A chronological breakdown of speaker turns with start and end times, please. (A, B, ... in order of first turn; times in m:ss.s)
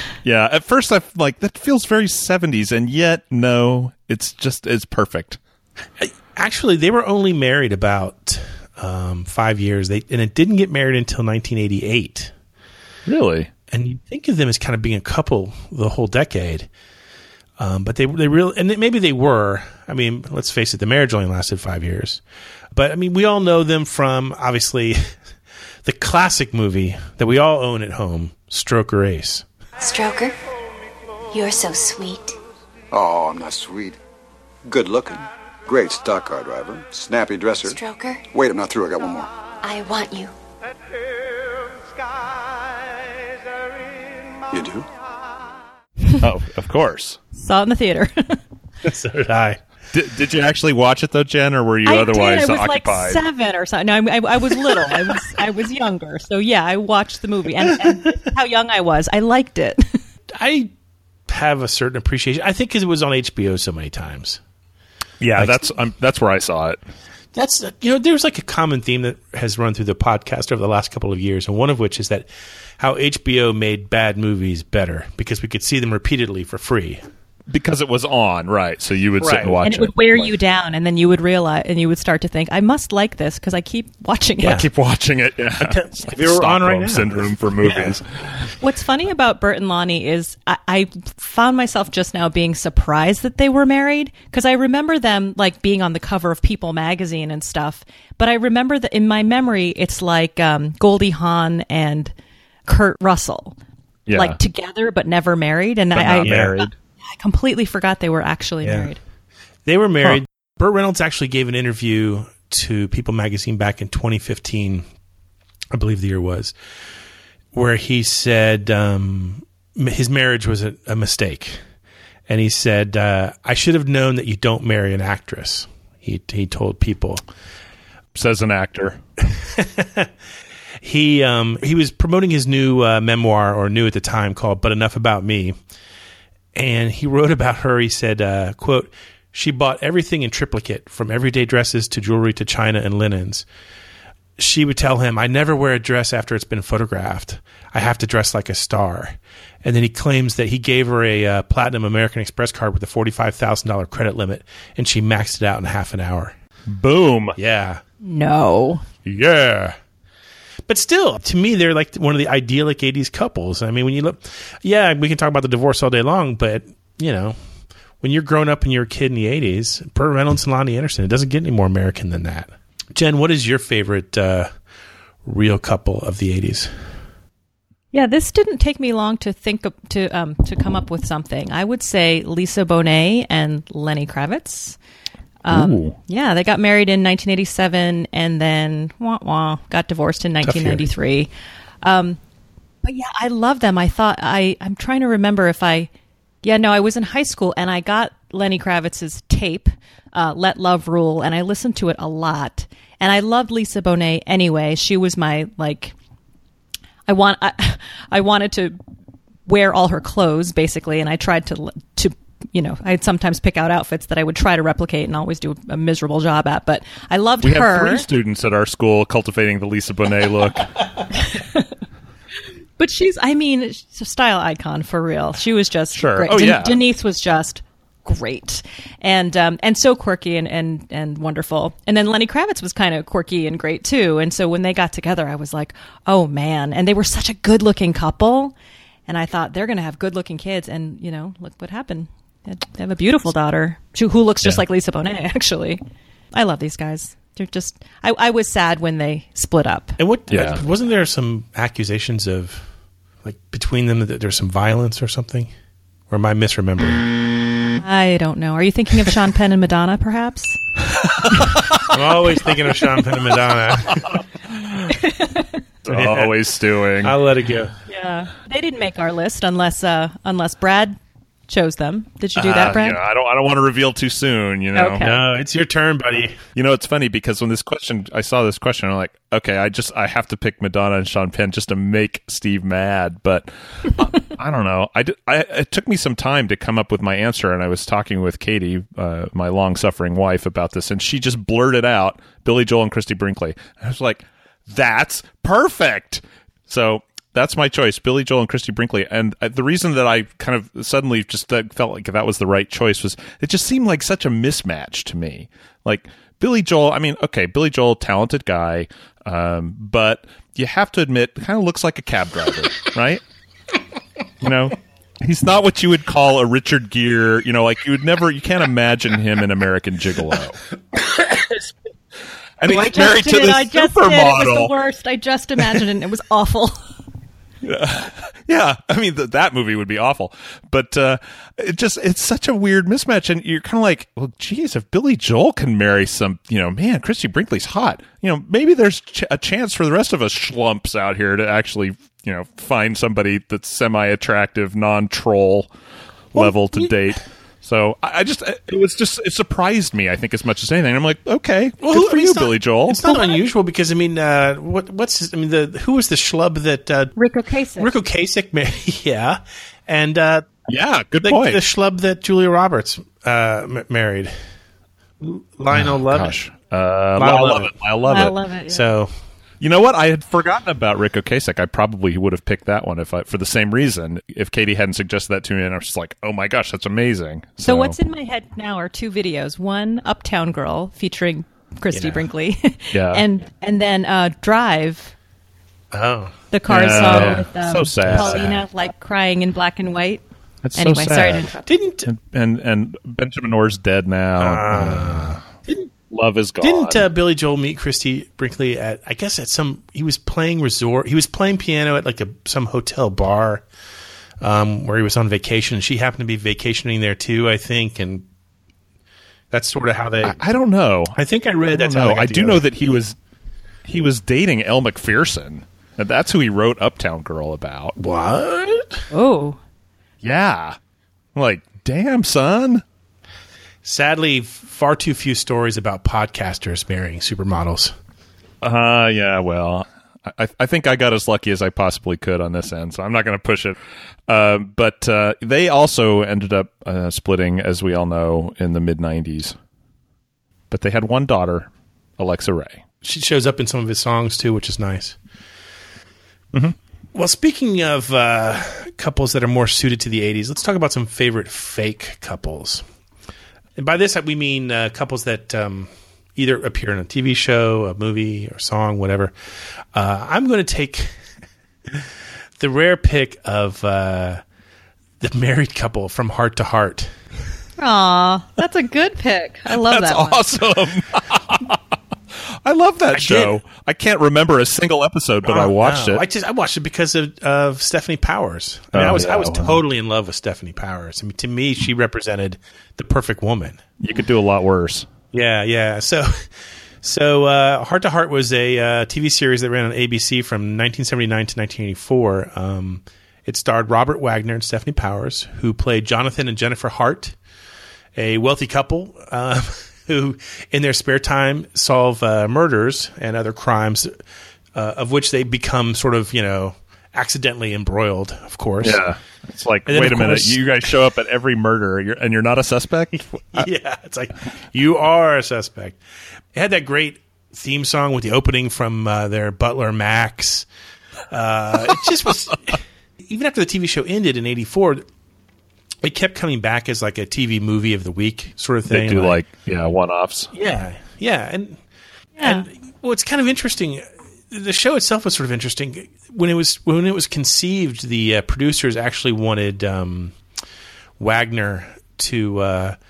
0:00.2-0:05.4 A
0:06.0-0:12.3 B
0:13.1-0:13.5 A
0:13.7-0:16.7 B
0:17.6-0:22.2 B
0:22.7-0:25.2 B
0:25.8-0:29.4 B
0:29.8-0:30.3 C
0:31.3-0:32.4 C
0:32.9-0:34.0 D
0:34.7-0:39.3 D
0:37.6-0:38.2 C
0:39.6-0:40.3 C
0:44.5-0:44.9 D
0:46.2-0:47.2 A
0:47.4-0:48.4 E
0:48.8-0:49.6 B
0:49.9-0:53.2 A
0:51.8-1:00.0 E
1:00.4-1:00.7 B
1:01.3-1:04.4 B
1:05.2-1:06.8 A
1:05.4-1:05.7 B
1:07.4-1:12.3 B
1:12.8-1:17.0 B
1:17.5-1:20.3 A
1:19.2-1:19.6 B
1:19.6-1:24.6 E
1:24.4-1:24.7 B
1:24.4-1:28.4 A
1:25.6-1:28.0 B
1:28.6-1:42.1 E
1:42.7-1:43.6 E
1:44.1-1:44.4 A
1:44.1-1:49.0 E
1:45.9-1:46.7 A
1:46.2-1:46.6 B
1:48.6-1:48.9 B
1:49.7-1:54.9 B
1:55.7-1:56.6 B
1:57.5-2:01.6 B
2:02.3-2:07.2 B
2:08.2-2:09.0 A
2:09.6-2:10.1 B
2:10.8-2:15.6 B
2:16.6-2:23.4 B
2:24.4-2:36.3 B
2:36.7-2:37.4 A
2:37.4-2:37.8 B
2:38.0-2:38.8 E
2:39.1-2:39.7 A
2:39.1-2:39.8 B
2:40.7-2:47.4 B
2:48.0-2:54.5 B
2:55.2-2:56.7 B
2:57.9-3:04.8 E
3:05.4-3:11.3 E
3:05.5-3:06.0 A
3:10.4-3:10.8 B
3:11.8-3:12.2 E
3:12.8-3:15.9 E
3:16.4-3:25.9 E
3:27.1-3:28.8 E
3:29.5-3:38.1 E
3:37.4-3:40.7 A
3:41.2-3:41.7 E
3:42.8-3:58.6 E
3:46.0-3:46.8 A
3:59.1-4:05.8 E
4:06.3-4:10.0 E
4:10.0-4:12.7 B
4:10.3-4:10.6 A
4:13.2-4:15.5 B
4:16.1-4:17.1 B
4:17.8-4:20.6 E
4:21.9-4:24.2 B
4:24.6-4:24.9 A
4:25.0-4:25.5 E
4:25.8-4:27.2 A
4:25.9-4:26.4 B
4:27.0-4:27.8 B
4:27.9-4:31.0 E
4:31.5-4:33.0 E
4:32.4-4:35.1 A
4:34.7-4:35.2 E
4:35.0-4:36.4 B
4:36.6-5:13.2 A
5:14.4-5:20.6 A
5:22.6-5:24.7 A
5:22.7-5:26.8 E
5:27.6-5:45.7 A
5:46.3-5:53.2 A
5:46.4-5:46.9 B
5:51.8-5:57.1 B
5:57.2-5:57.9 E
5:57.8-6:00.5 B
6:00.7-6:01.6 A
6:01.2-6:04.4 B
6:05.2-6:06.4 B
6:05.7-6:08.4 A
6:07.2-6:07.8 B
6:08.1-6:08.8 E
6:08.7-6:09.1 B
6:09.6-6:18.0 A
6:17.6-6:25.1 E
6:21.9-6:22.3 B
6:22.9-6:23.2 A
6:25.9-6:26.3 B
6:26.5-6:30.2 E
6:26.7-6:28.5 A
6:26.9-6:27.4 B
6:28.0-6:28.6 B
6:30.6-6:31.5 A
6:30.8-6:31.7 E
6:31.6-6:32.1 B
6:32.0-6:35.4 A
6:34.4-6:35.8 B
6:36.1-6:37.0 A
6:36.6-6:43.6 B
6:44.4-6:48.3 B
6:49.5-6:50.4 B
6:50.2-6:51.2 A
6:51.1-6:52.6 B
6:51.7-6:53.2 A
6:53.8-6:58.0 A
6:58.0-6:59.0 B
6:59.1-6:59.6 E
7:00.2-7:00.8 A
7:01.4-7:02.8 A
7:03.8-7:07.9 B
7:08.6-7:13.8 A
7:14.3-7:19.6 A
7:20.7-7:22.8 A
7:23.0-7:25.2 B
7:27.1-7:32.8 B
7:33.8-7:39.3 B
7:39.9-7:41.2 B
7:42.6-7:44.4 B
7:45.2-7:47.1 B
7:47.8-7:50.4 E
7:49.7-7:51.8 A
7:52.6-7:56.2 A
7:53.1-7:53.6 B
7:55.5-8:03.8 B
7:58.9-7:59.8 A
8:04.0-8:05.1 A
8:05.3-8:06.5 B
8:07.0-8:17.4 B
8:18.2-8:24.2 B
8:24.7-8:29.0 B
8:28.8-8:33.7 A
8:29.9-8:30.9 B
8:33.5-8:36.0 B
8:36.5-8:40.7 B
8:41.3-8:45.0 B
8:46.0-8:49.4 B
8:48.9-8:50.5 A
8:50.5-8:51.8 B
8:52.4-8:52.7 E
8:52.4-9:00.4 B
9:01.2-9:03.0 B